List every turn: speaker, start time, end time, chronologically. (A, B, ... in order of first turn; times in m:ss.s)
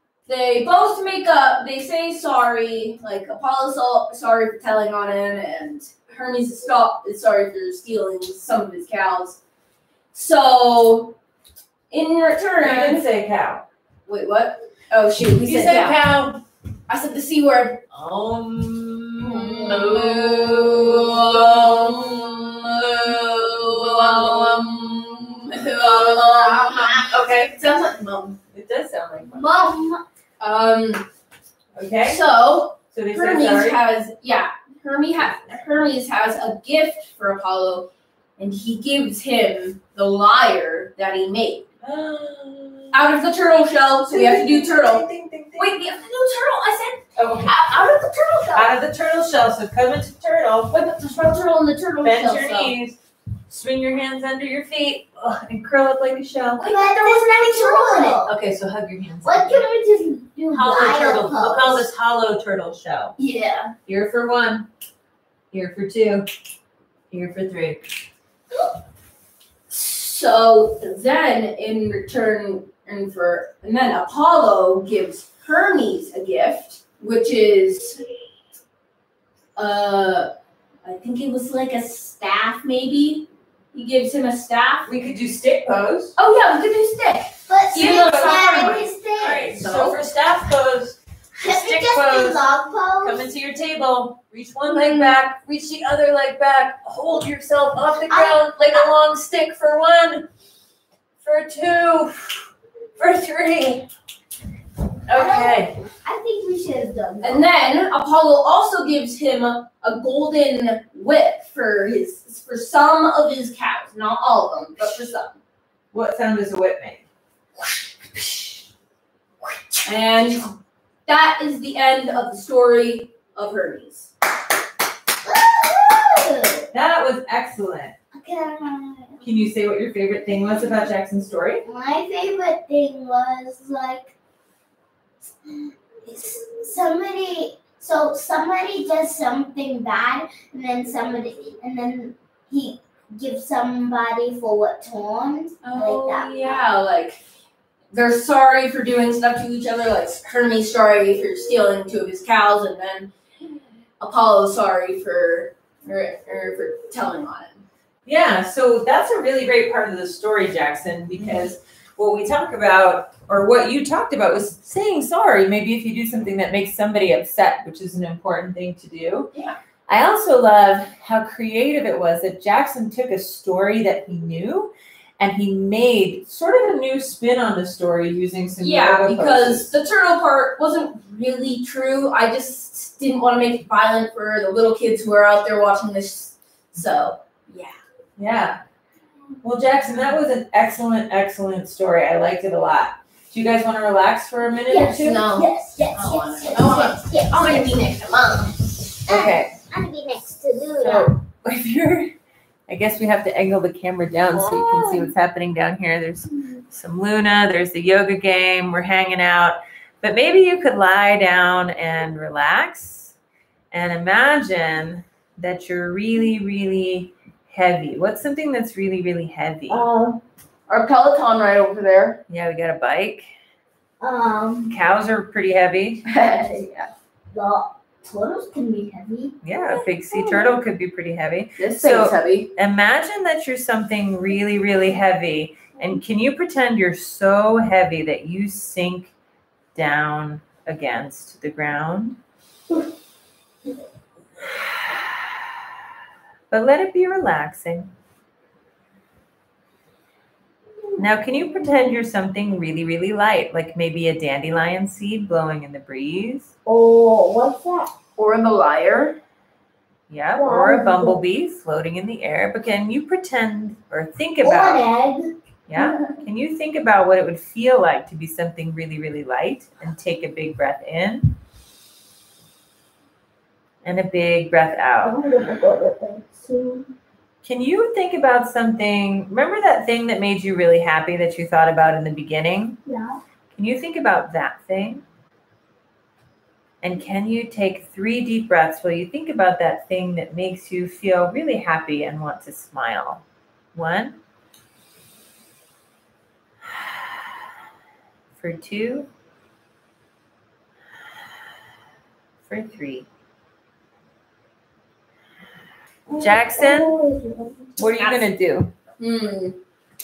0:00.3-0:09.4 A
0:10.1-0:11.2 A
0:11.9-0:13.0 A
0:12.6-0:13.6 B
0:14.1-0:16.2 A
0:15.2-0:16.4 B
0:16.9-0:17.8 A
0:17.9-0:24.6 B
0:19.2-0:28.4 A
0:25.8-0:27.1 C
0:27.1-0:27.6 B
0:28.5-0:29.5 B
0:29.4-0:30.0 C
0:30.4-0:31.1 A
0:31.8-0:32.2 B
0:32.0-0:41.7 A
0:32.9-0:33.8 B
0:41.8-0:43.1 B
0:42.9-0:45.1 A
0:44.1-0:45.8 B
0:45.6-0:48.7 A
0:47.2-0:47.5 B
0:48.5-0:50.8 B
0:50.7-0:52.7 A
0:52.0-0:53.0 B
0:53.5-0:56.6 B
0:56.6-0:58.2 A
0:56.6-0:58.4 C
0:58.2-0:59.7 B
0:59.2-1:01.9 C
1:00.5-1:03.1 B
1:03.2-1:03.7 A
1:03.9-1:04.7 B
1:05.5-1:06.3 B
1:07.1-1:07.8 B
1:09.7-1:18.0 A
1:19.6-1:20.3 A
1:20.8-1:24.9 A
1:24.9-1:26.2 B
1:26.2-1:30.0 A
1:27.5-1:29.6 C
1:27.8-1:32.4 B
1:31.4-1:33.3 C
1:33.0-1:40.3 B
1:34.6-1:35.2 C
1:38.1-1:38.9 C
1:41.2-1:42.4 B
1:43.0-1:43.9 B
1:45.1-1:45.8 B
1:45.1-1:47.5 C
1:47.2-1:55.4 A
1:55.9-1:57.0 B
1:59.8-2:00.5 A
2:01.1-2:04.1 A
2:05.2-2:06.7 C
2:06.7-2:08.0 B
2:08.1-2:09.2 C
2:09.2-2:11.6 B
2:11.6-2:14.1 C
2:15.4-2:26.6 C
2:25.6-2:27.2 A
2:27.9-2:33.1 A
2:34.0-2:37.6 A
2:38.1-2:49.3 B
2:49.9-2:59.7 B
2:58.6-3:07.8 A
3:08.2-3:08.6 B
3:09.4-3:15.2 B
3:14.7-3:17.8 C
3:14.8-3:18.8 A
3:19.1-3:21.1 C
3:19.1-3:19.6 B
3:20.8-3:22.1 B
3:22.7-3:33.1 B
3:24.4-3:25.0 C
3:33.7-3:39.9 B
3:39.7-3:40.2 C
3:40.7-3:42.2 A
3:42.3-3:43.3 B
3:44.0-3:44.8 C
3:44.7-3:46.0 B
3:46.1-3:46.9 A
3:47.3-3:49.4 C
3:49.4-3:59.1 B
3:50.1-3:50.5 C
3:51.6-3:52.5 A
3:59.8-4:02.2 B
4:04.4-4:05.4 B
4:06.5-4:07.9 B
4:11.0-4:16.5 B
4:16.7-4:17.9 C
4:18.2-4:19.2 A
4:20.1-4:24.8 B
4:20.4-4:21.2 C
4:24.4-4:26.2 C
4:25.7-4:31.3 B
4:33.8-4:35.2 B
4:35.0-4:36.9 C
4:37.4-4:42.8 B
4:42.9-4:43.2 C
4:43.5-4:45.0 B
4:46.8-4:53.2 B
4:53.8-4:54.2 B
4:56.6-4:57.3 B
4:58.4-4:59.1 B
5:02.5-5:03.1 B
5:06.1-5:07.8 C
5:06.2-5:07.0 B
5:07.8-5:08.7 B
5:08.0-5:08.3 A
5:09.0-5:09.6 A